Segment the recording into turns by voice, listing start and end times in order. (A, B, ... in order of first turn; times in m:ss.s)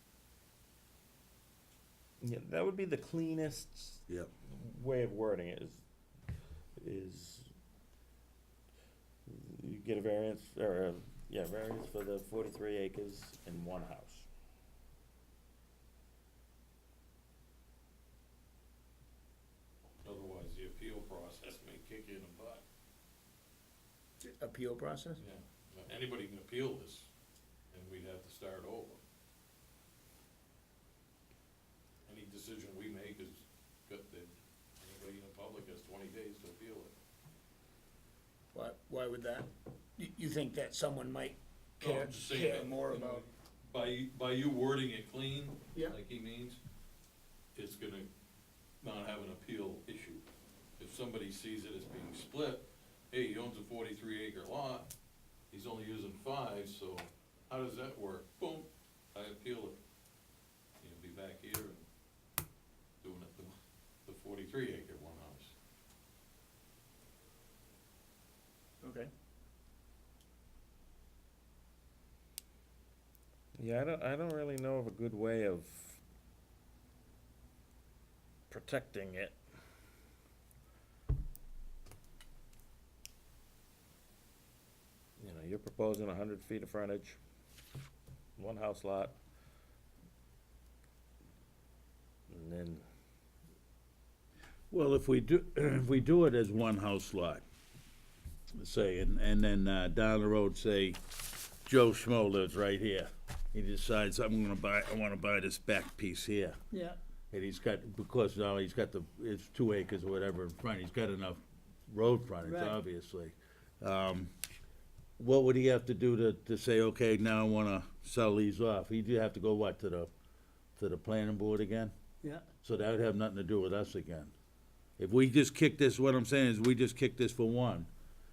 0:02.2-0:05.8 A
0:06.8-0:07.5 A
0:09.3-0:14.3 A
0:20.0-0:22.6 B
0:24.2-0:25.2 C
0:25.2-0:27.1 B
0:27.7-0:29.0 B
0:32.1-0:37.0 B
0:38.5-0:43.2 C
0:41.8-0:46.6 B
0:47.5-0:48.1 B
0:48.8-0:50.2 B
0:50.8-0:54.9 B
0:55.5-0:59.8 B
1:00.8-1:01.9 B
1:03.0-1:03.5 B
1:04.1-1:05.5 B
1:08.8-1:09.1 C
1:13.6-1:16.0 A
1:18.5-1:19.4 A
1:25.2-1:27.2 A
1:28.4-1:29.2 A
1:32.3-1:32.8 A
1:34.7-1:37.4 D
1:38.5-1:41.0 D
1:41.6-1:46.6 D
1:47.3-1:54.3 D
1:55.2-2:00.1 D
2:00.8-2:01.9 D
2:02.6-2:04.3 D
2:05.0-2:07.9 D